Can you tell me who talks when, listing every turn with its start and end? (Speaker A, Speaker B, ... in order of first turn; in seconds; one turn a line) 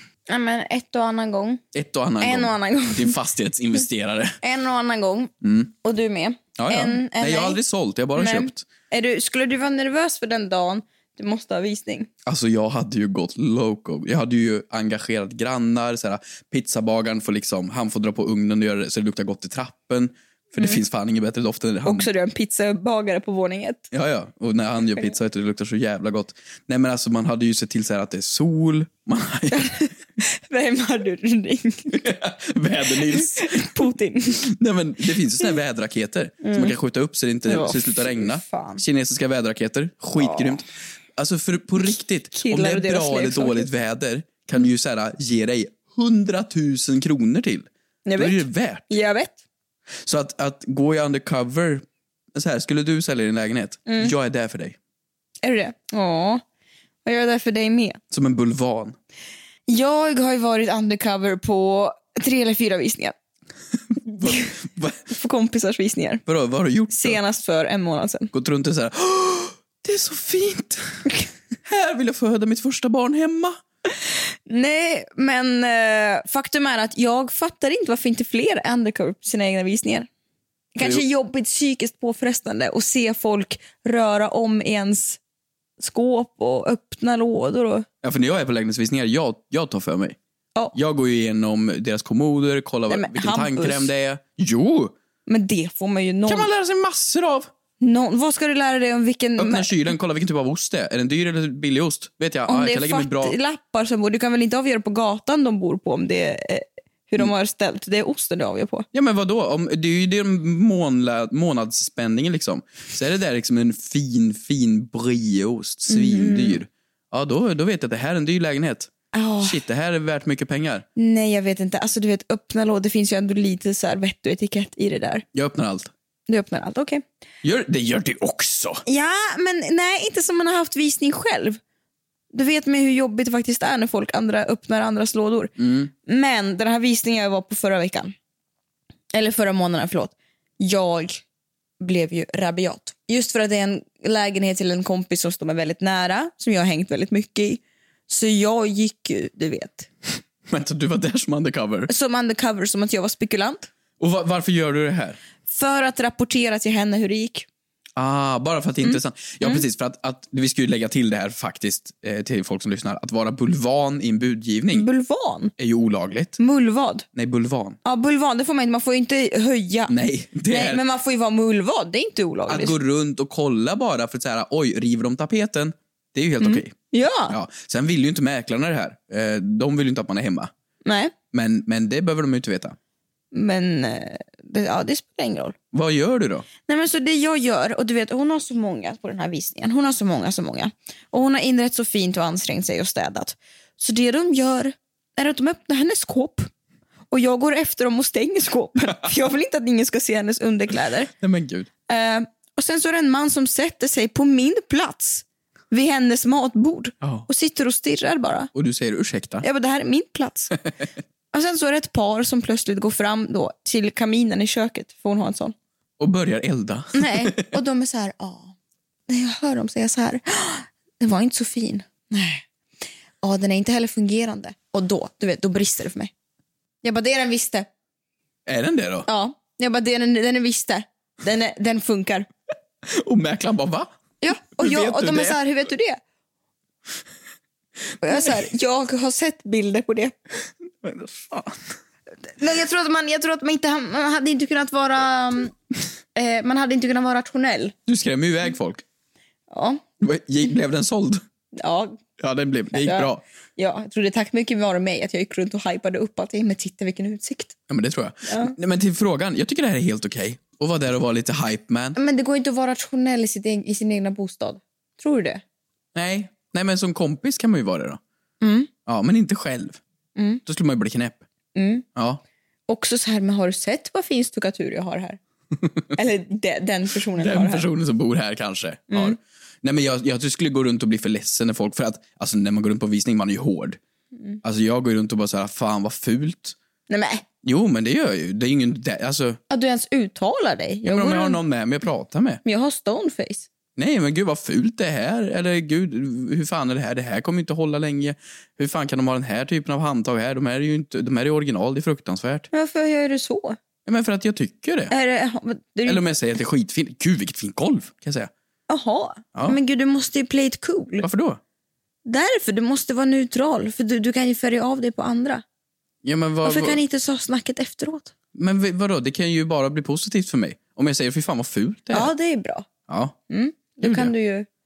Speaker A: 0.3-1.6
Speaker B: 1.7-4.4
Speaker A: 2.2-3.1
Speaker A: 4.4-5.3
Speaker B: 5.4-5.7
Speaker A: 5.8-7.6
Speaker B: 6.5-8.6
Speaker A: 8.2-12.1
Speaker B: 12.2-22.1
Speaker A: 21.8-23.9
Speaker B: 23.9-29.8
Speaker A: 29.5-32.0
Speaker B: 31.9-48.9
Speaker A: 32.9-34.5
Speaker A: 36.4-36.7
Speaker A: 37.5-38.8
Speaker A: 40.2-40.6
Speaker A: 42.3-43.7
Speaker A: 48.0-49.4
Speaker B: 50.0-54.8
Speaker A: 53.9-54.1
Speaker A: 55.4-56.4
Speaker A: 57.0-58.0
Speaker B: 58.1-59.0
Speaker A: 59.7-63.1
Speaker B: 64.0-65.0
Speaker A: 65.1-66.2
Speaker B: 66.2-67.2
Speaker A: 66.9-68.3
Speaker B: 68.3-71.0
Speaker B: 71.6-73.6
Speaker A: 74.5-80.1
Speaker A: 80.7-85.2
Speaker B: 80.8-81.0
Speaker A: 85.8-87.8
Speaker B: 88.0-90.2
Speaker B: 90.7-94.9
Speaker A: 92.9-93.9
Speaker A: 95.3-96.5
Speaker B: 96.3-97.5
Speaker A: 97.8-99.9
Speaker B: 99.4-103.3
Speaker A: 102.5-108.8
Speaker B: 108.9-120.8
Speaker A: 115.9-116.6
Speaker A: 119.1-119.6
Speaker A: 121.0-125.2
Speaker B: 125.3-125.9
Speaker A: 126.3-127.0
Speaker B: 127.4-128.8
Speaker A: 128.8-131.6
Speaker A: 132.3-135.5
Speaker B: 135.6-135.9
Speaker A: 136.1-138.1
Speaker A: 139.1-141.2
Speaker A: 141.8-149.9
Speaker B: 150.5-151.9
Speaker A: 151.9-153.7
Speaker B: 154.0-155.2
Speaker A: 155.4-157.5
Speaker B: 157.9-164.9
Speaker A: 158.8-159.6
Speaker A: 164.7-165.5
Speaker B: 165.6-166.4
Speaker A: 166.4-167.1
Speaker B: 167.1-167.8
Speaker A: 167.8-169.9
Speaker B: 169.9-170.8
Speaker A: 170.5-172.8
Speaker B: 172.5-176.7
Speaker A: 176.4-177.3
Speaker B: 177.3-180.5
Speaker A: 180.8-181.1
Speaker B: 181.3-182.8
Speaker A: 183.3-185.5
Speaker B: 185.7-186.4
Speaker A: 186.7-196.5
Speaker A: 197.1-201.1
Speaker B: 201.2-201.7
Speaker A: 201.9-208.5
Speaker B: 207.0-207.3
Speaker B: 208.5-209.4
Speaker A: 209.4-210.5
Speaker A: 211.3-215.5
Speaker B: 216.0-217.4
Speaker A: 216.9-218.5
Speaker A: 219.1-222.4
Speaker A: 223.2-226.1
Speaker A: 226.8-227.7
Speaker B: 228.4-229.1
Speaker A: 229.1-232.3
Speaker B: 232.8-233.9
Speaker A: 234.2-236.0
Speaker B: 234.6-235.4
Speaker A: 238.0-240.1
Speaker B: 240.8-241.6
Speaker A: 242.4-245.5
Speaker A: 246.1-247.7
Speaker B: 247.9-248.8
Speaker A: 249.5-249.8
Speaker B: 250.0-251.2
Speaker A: 251.6-252.0
Speaker B: 252.2-253.2
Speaker A: 252.7-257.5
Speaker B: 257.7-262.0
Speaker A: 258.2-258.5
Speaker A: 261.9-265.4
Speaker B: 265.9-268.0
Speaker A: 268.4-268.7
Speaker B: 268.9-269.8
Speaker A: 270.1-270.4
Speaker B: 270.4-271.2
Speaker A: 271.5-271.8
Speaker B: 271.9-272.2
Speaker A: 272.7-275.2
Speaker A: 275.9-277.6
Speaker B: 277.1-283.8
Speaker A: 278.9-279.2
Speaker B: 284.4-286.6
Speaker A: 286.9-287.2
Speaker B: 287.4-289.4
Speaker A: 289.5-291.4
Speaker B: 290.9-292.4
Speaker A: 292.4-293.4
Speaker B: 293.8-302.5
Speaker A: 302.5-303.6
Speaker B: 303.8-304.9
Speaker A: 304.9-306.0
Speaker B: 305.8-308.3
Speaker A: 308.7-311.1
Speaker B: 311.0-311.4
Speaker A: 312.1-315.4
Speaker B: 316.0-316.8
Speaker A: 316.4-318.1
Speaker B: 318.3-322.1
Speaker A: 321.9-322.7
Speaker B: 322.9-323.1
Speaker A: 323.3-324.5
Speaker B: 323.8-324.1